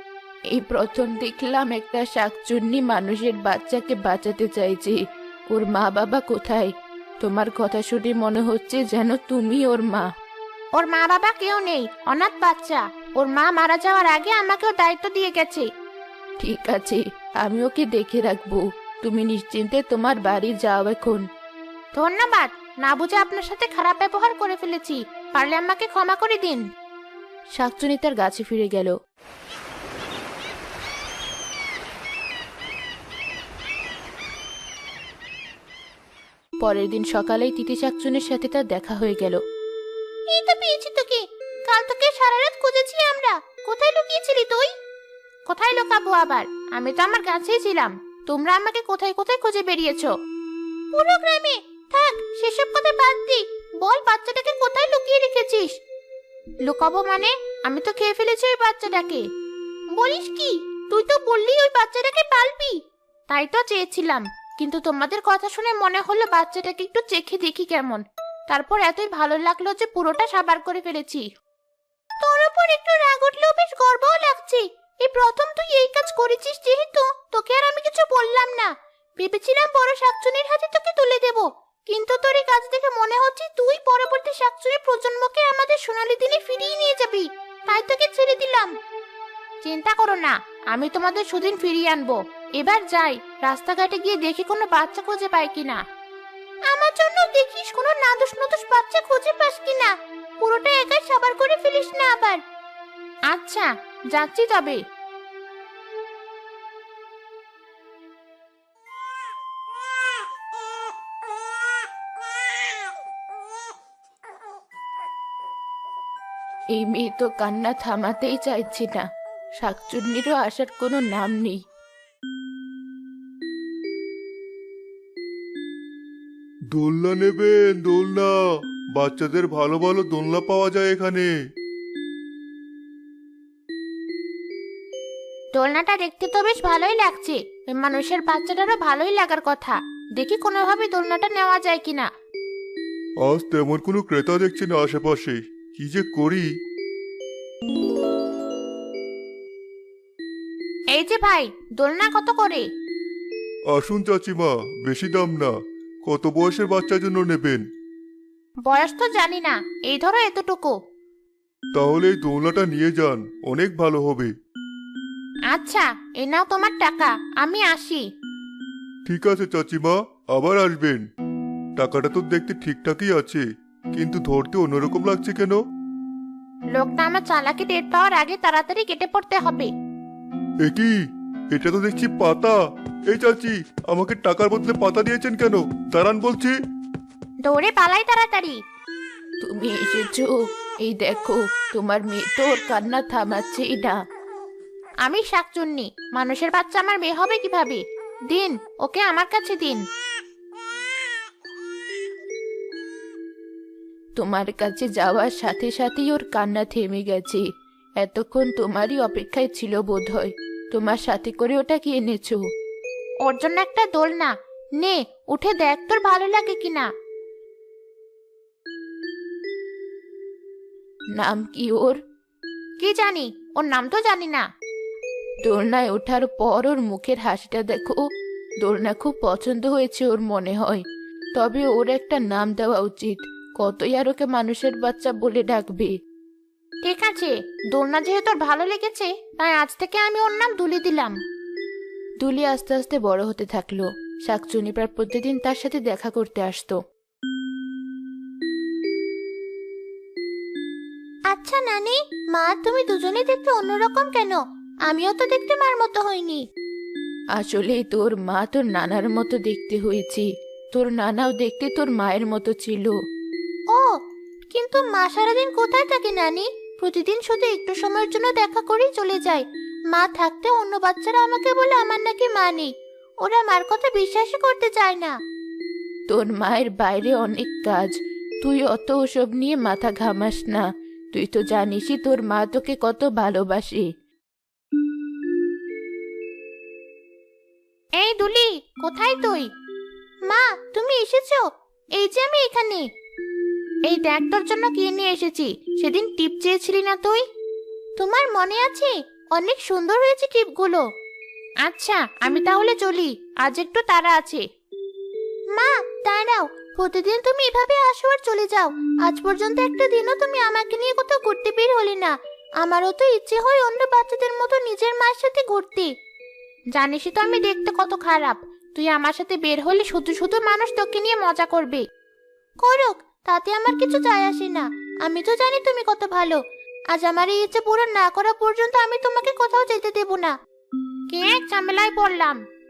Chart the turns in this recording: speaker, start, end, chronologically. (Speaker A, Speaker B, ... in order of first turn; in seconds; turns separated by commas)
Speaker A: 0.5-5.0, Speaker A: 5.5-10.1, Speaker B: 10.8-15.7, Speaker A: 16.4-21.2, Speaker B: 22.0-26.6, Speaker A: 27.6-28.9, Speaker A: 36.6-39.4, Speaker B: 40.3-44.7, Speaker B: 45.5-50.1, Speaker B: 50.9-55.8, Speaker B: 56.6-59.2, Speaker B: 59.9-62.8, Speaker B: 63.3-71.2, Speaker B: 72.2-88.7, Speaker B: 89.6-95.8, Speaker B: 96.7-102.4, Speaker B: 103.3-104.8, Speaker A: 116.7-119.0, Speaker A: 119.6-121.6, Speaker C: 126.8-128.3, Speaker C: 129.0-131.3, Speaker B: 135.5-142.1, Speaker C: 143.2-146.5, Speaker B: 150.9-152.7, Speaker C: 153.7-155.5, Speaker C: 156.1-157.6, Speaker B: 158.7-160.8, Speaker C: 161.8-164.3, Speaker B: 165.5-168.0, Speaker C: 169.1-171.0, Speaker C: 171.8-173.4, Speaker C: 173.9-175.6, Speaker B: 176.7-179.7, Speaker C: 180.6-181.0, Speaker C: 181.5-182.6, Speaker C: 183.1-186.5, Speaker B: 187.4-188.6, Speaker A: 189.4-194.0, Speaker B: 195.0-199.8, Speaker A: 204.2-207.4, Speaker A: 208.0-212.4, Speaker B: 213.2-216.9, Speaker A: 221.1-222.0, Speaker B: 222.8-224.4, Speaker A: 225.4-228.0, Speaker A: 228.6-230.8, Speaker A: 231.4-235.9, Speaker B: 236.8-241.2, Speaker A: 242.2-246.8, Speaker B: 251.3-256.4, Speaker A: 257.4-262.9, Speaker B: 264.5-272.7, Speaker B: 273.2-275.1, Speaker A: 276.1-283.9, Speaker B: 288.0-289.5, Speaker B: 290.3-292.9, Speaker B: 293.9-297.2, Speaker B: 298.0-300.8, Speaker B: 301.6-304.4, Speaker B: 305.5-315.9, Speaker B: 316.7-321.8, Speaker B: 322.6-326.4, Speaker B: 326.9-330.3, Speaker B: 331.1-332.4